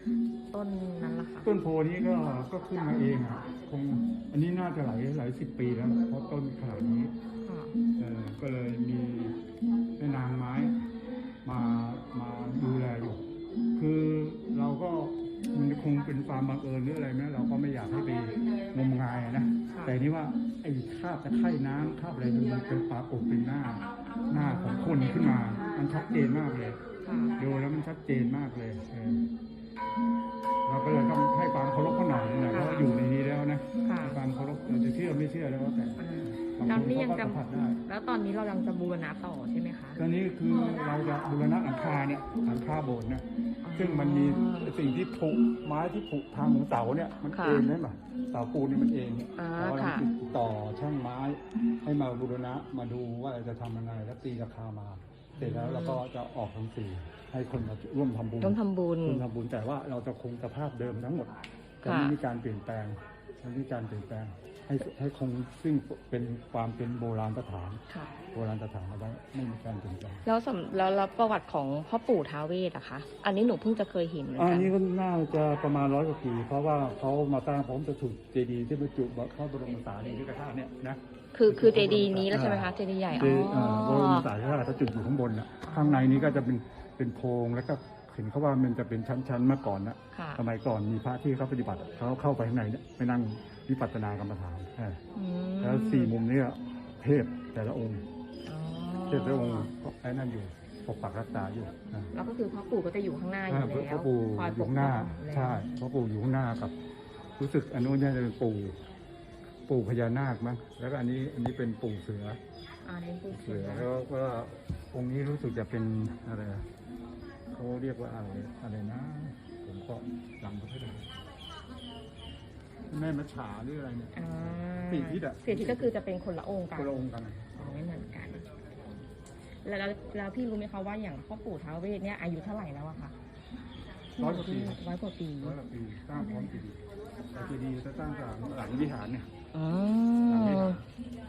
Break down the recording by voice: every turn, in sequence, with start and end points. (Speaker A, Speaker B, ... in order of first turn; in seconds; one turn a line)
Speaker A: 0.5-1.5
Speaker B: 1.4-7.1
Speaker A: 7.5-7.7
Speaker B: 8.0-9.4
Speaker B: 10.0-10.8
Speaker B: 11.4-13.2
Speaker B: 13.8-26.8
Speaker A: 19.7-20.0
Speaker A: 24.4-24.9
Speaker A: 27.0-27.3
Speaker B: 27.4-29.3
Speaker B: 30.7-37.8
Speaker A: 32.5-32.9
Speaker A: 33.8-34.2
Speaker A: 36.0-40.0
Speaker B: 40.0-67.8
Speaker A: 43.6-44.7
Speaker A: 47.3-47.7
Speaker A: 49.4-50.1
Speaker A: 55.4-56.0
Speaker A: 58.4-59.2
Speaker A: 61.8-62.2
Speaker B: 68.3-70.2
Speaker A: 70.2-74.7
Speaker B: 74.4-95.0
Speaker A: 81.3-84.3
Speaker A: 85.7-86.4
Speaker A: 90.1-90.4
Speaker A: 95.1-96.1
Speaker B: 95.6-98.0
Speaker A: 98.5-99.7
Speaker B: 99.1-102.1
Speaker A: 102.1-105.7
Speaker B: 103.5-106.7
Speaker B: 107.4-108.8
Speaker B: 109.7-112.4
Speaker A: 112.8-113.9
Speaker B: 113.3-116.7
Speaker B: 117.5-121.1
Speaker B: 122.9-125.9
Speaker A: 124.1-127.0
Speaker B: 126.8-128.0
Speaker A: 127.5-128.5
Speaker A: 129.6-133.2
Speaker A: 134.2-135.6
Speaker B: 134.2-134.8
Speaker B: 135.4-139.3
Speaker A: 136.2-136.5
Speaker A: 139.5-140.8
Speaker B: 140.3-140.9